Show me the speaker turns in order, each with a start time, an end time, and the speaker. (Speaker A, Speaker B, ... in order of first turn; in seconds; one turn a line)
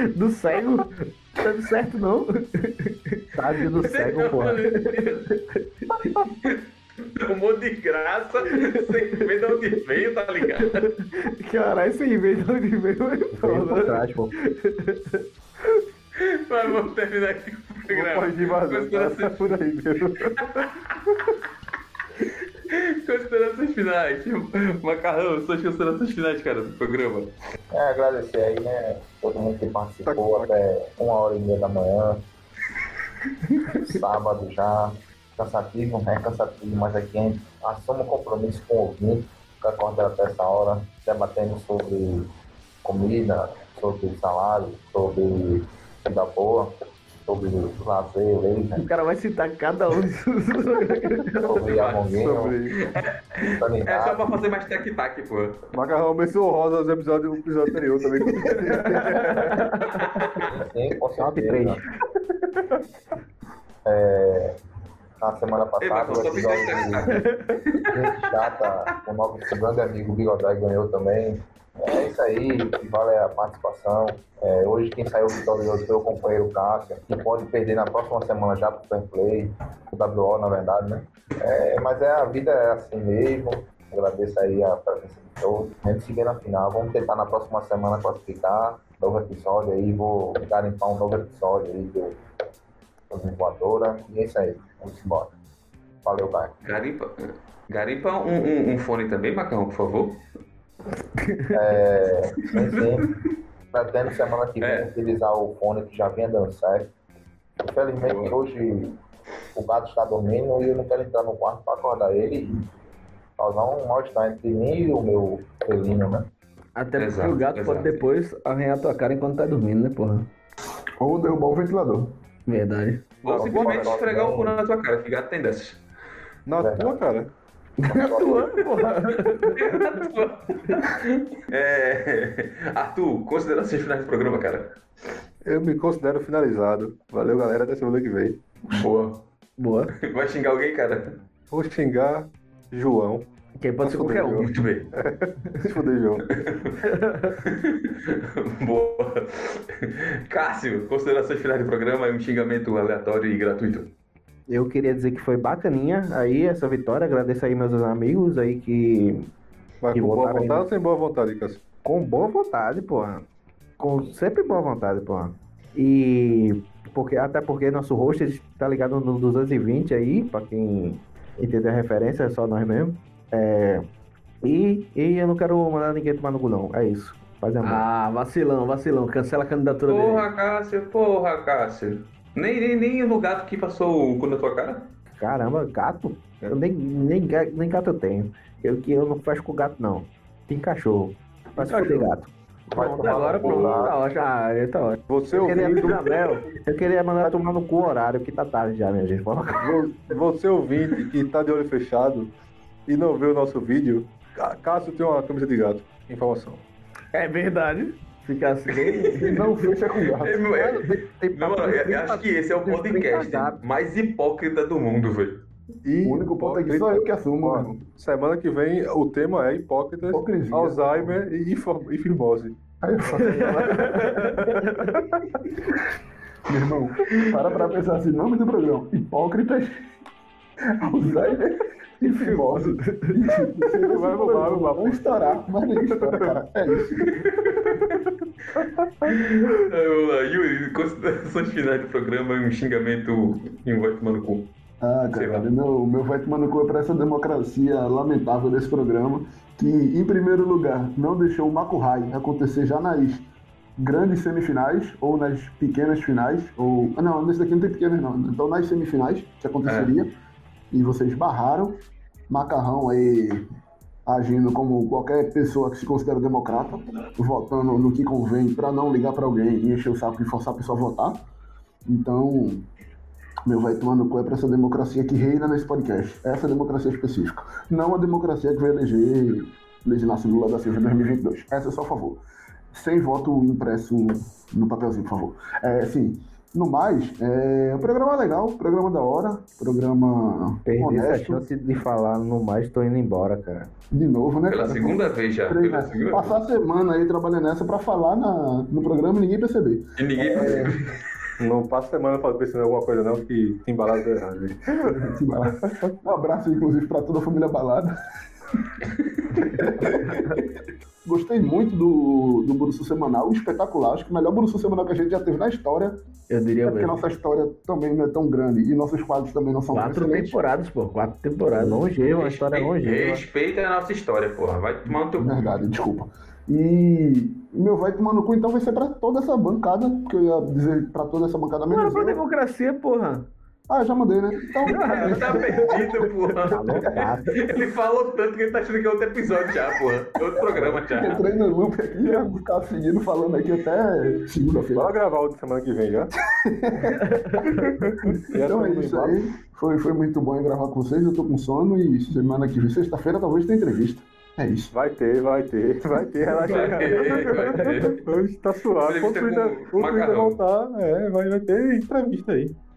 Speaker A: 0.1-3.2
Speaker B: 3.3-4.6
Speaker C: 3.8-5.3
Speaker A: 4.8-5.4
Speaker A: 6.0-6.2
Speaker C: 6.3-10.9
Speaker A: 10.6-15.2
Speaker B: 13.4-14.3
Speaker C: 16.2-19.6
Speaker D: 17.9-20.7
Speaker C: 22.2-27.3
Speaker E: 27.7-32.2
Speaker D: 30.1-30.5
Speaker E: 33.8-42.3
Speaker E: 42.8-46.7
Speaker E: 47.2-48.8
Speaker A: 48.8-51.6
Speaker E: 51.4-52.6
Speaker C: 51.6-52.2
Speaker D: 52.1-52.8
Speaker C: 52.7-55.7
Speaker E: 53.4-54.4
Speaker D: 55.7-59.8
Speaker F: 58.3-59.1
Speaker A: 58.7-60.1
Speaker C: 60.0-60.5
Speaker E: 60.5-61.8
Speaker B: 61.2-61.8
Speaker E: 63.8-64.5
Speaker E: 65.2-67.1
Speaker C: 65.8-68.5
Speaker A: 67.1-67.4
Speaker E: 67.9-92.1
Speaker E: 93.1-95.3
Speaker E: 96.0-96.7
Speaker C: 96.7-100.2
Speaker A: 101.2-101.5
Speaker E: 101.5-103.1
Speaker C: 102.5-103.0
Speaker E: 103.7-106.9
Speaker C: 104.6-104.9
Speaker E: 107.6-109.0
Speaker C: 108.0-108.4
Speaker E: 109.5-112.7
Speaker E: 113.4-116.3
Speaker A: 116.8-120.3
Speaker C: 117.0-118.0
Speaker F: 121.0-122.2
Speaker A: 122.5-123.1
Speaker C: 123.2-125.8
Speaker E: 123.3-124.5
Speaker D: 126.5-127.3
Speaker E: 126.6-127.0
Speaker E: 127.8-128.7
Speaker A: 128.0-129.6
Speaker C: 129.2-134.8
Speaker D: 135.4-138.4
Speaker C: 138.7-139.2
Speaker A: 139.6-139.9
Speaker C: 139.9-141.2
Speaker D: 141.5-143.2
Speaker A: 143.6-144.5
Speaker D: 143.8-146.3
Speaker C: 144.4-144.9
Speaker C: 146.3-146.8
Speaker A: 146.8-147.4
Speaker C: 147.4-153.9
Speaker B: 154.5-159.3
Speaker D: 159.8-161.6
Speaker B: 159.9-160.7
Speaker B: 161.8-163.2
Speaker B: 163.8-173.8
Speaker B: 174.4-177.8
Speaker A: 177.6-180.2
Speaker C: 179.9-184.9
Speaker B: 185.2-192.3
Speaker A: 191.6-192.1
Speaker E: 192.7-193.9
Speaker A: 192.7-196.4
Speaker D: 195.1-196.1
Speaker B: 195.3-196.0
Speaker B: 196.6-199.8
Speaker D: 199.6-202.3
Speaker D: 202.9-206.6
Speaker A: 207.1-209.5
Speaker C: 208.7-209.6
Speaker F: 209.1-210.5
Speaker C: 210.2-215.4
Speaker B: 210.4-213.6
Speaker D: 215.8-217.1
Speaker F: 216.0-217.8
Speaker D: 217.9-225.3
Speaker F: 220.1-221.2
Speaker F: 222.8-223.9
Speaker A: 223.1-225.1
Speaker F: 226.5-229.8
Speaker A: 227.1-227.6
Speaker F: 230.8-237.1
Speaker A: 232.0-235.1
Speaker D: 233.8-236.4
Speaker C: 237.1-237.9
Speaker D: 237.4-237.9
Speaker D: 238.6-239.1
Speaker C: 239.0-244.5
Speaker F: 244.8-253.3
Speaker C: 245.1-245.5
Speaker F: 253.8-260.1
Speaker C: 259.6-259.9
Speaker F: 260.7-261.8
Speaker F: 262.3-263.4
Speaker F: 264.1-271.2
Speaker F: 271.9-272.7
Speaker F: 273.4-282.2
Speaker F: 282.7-291.4
Speaker B: 290.7-293.7
Speaker F: 293.9-300.8
Speaker C: 294.5-296.4
Speaker C: 300.0-300.9
Speaker D: 301.4-305.1
Speaker F: 304.8-307.9
Speaker F: 309.3-310.5
Speaker F: 311.1-316.0
Speaker A: 316.3-317.0
Speaker F: 316.7-320.4
Speaker A: 319.7-321.9
Speaker B: 321.5-323.2
Speaker C: 322.2-325.6
Speaker F: 325.2-332.2
Speaker A: 331.7-333.3
Speaker F: 333.7-335.9
Speaker C: 334.6-341.2
Speaker A: 334.7-337.0
Speaker B: 336.5-337.4
Speaker F: 340.4-344.9
Speaker D: 344.7-346.1
Speaker F: 346.3-354.7
Speaker A: 346.8-347.9
Speaker D: 347.4-349.2
Speaker D: 354.7-362.5
Speaker A: 356.3-357.9
Speaker C: 356.4-358.1
Speaker C: 358.8-360.4